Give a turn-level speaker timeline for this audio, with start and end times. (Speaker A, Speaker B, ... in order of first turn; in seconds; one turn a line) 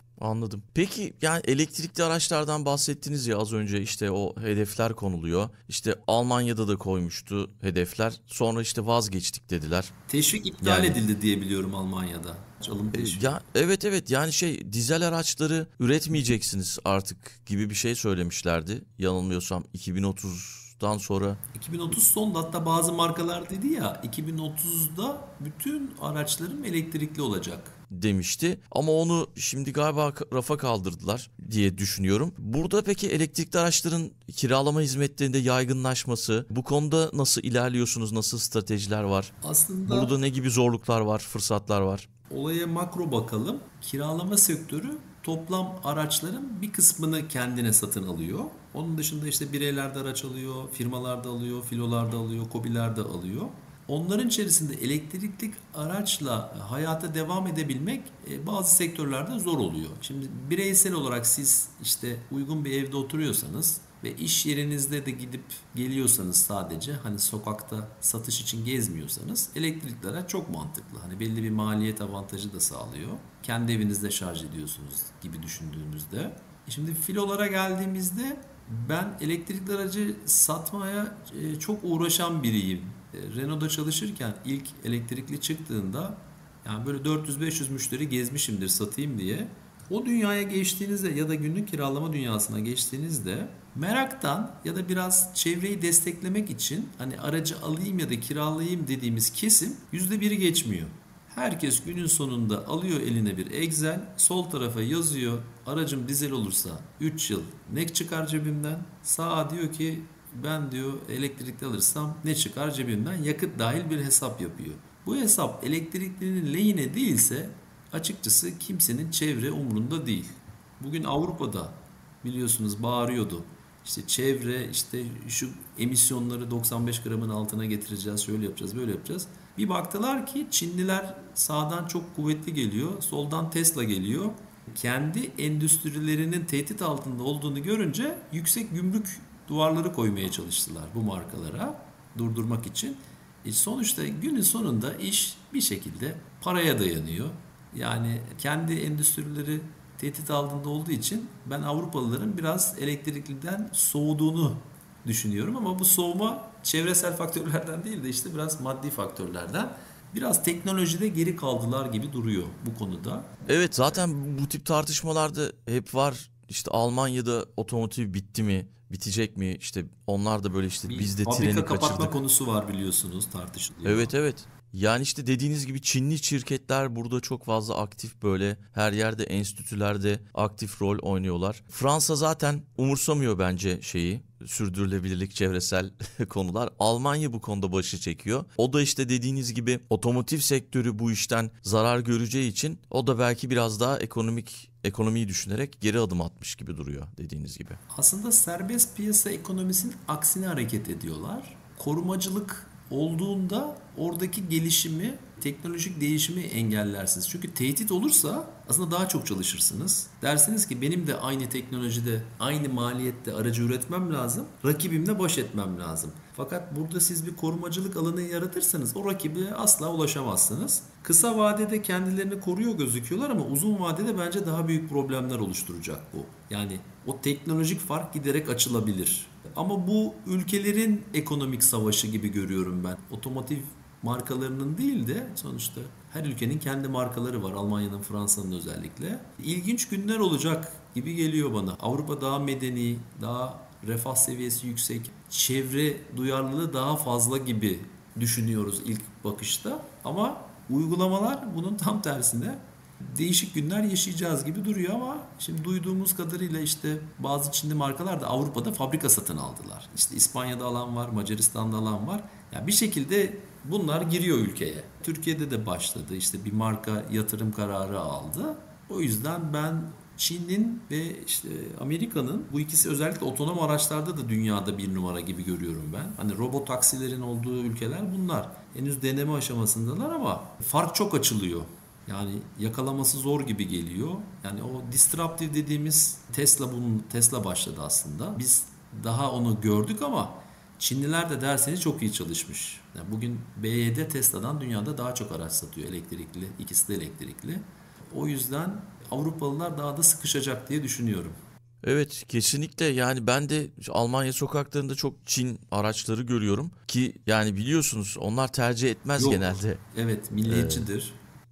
Speaker A: 0.2-9.9
Speaker B: 10.1-13.3
Speaker A: 10.6-11.0
Speaker A: 12.9-21.4
Speaker B: 21.5-27.8
Speaker A: 27.9-39.3
Speaker B: 39.4-40.1
Speaker A: 39.9-42.1
Speaker B: 42.3-163.3
Speaker A: 163.5-172.2
Speaker B: 170.9-174.1
Speaker A: 173.8-197.8
Speaker B: 197.9-301.4
Speaker A: 301.8-309.8
Speaker B: 309.2-311.2
Speaker A: 310.4-310.9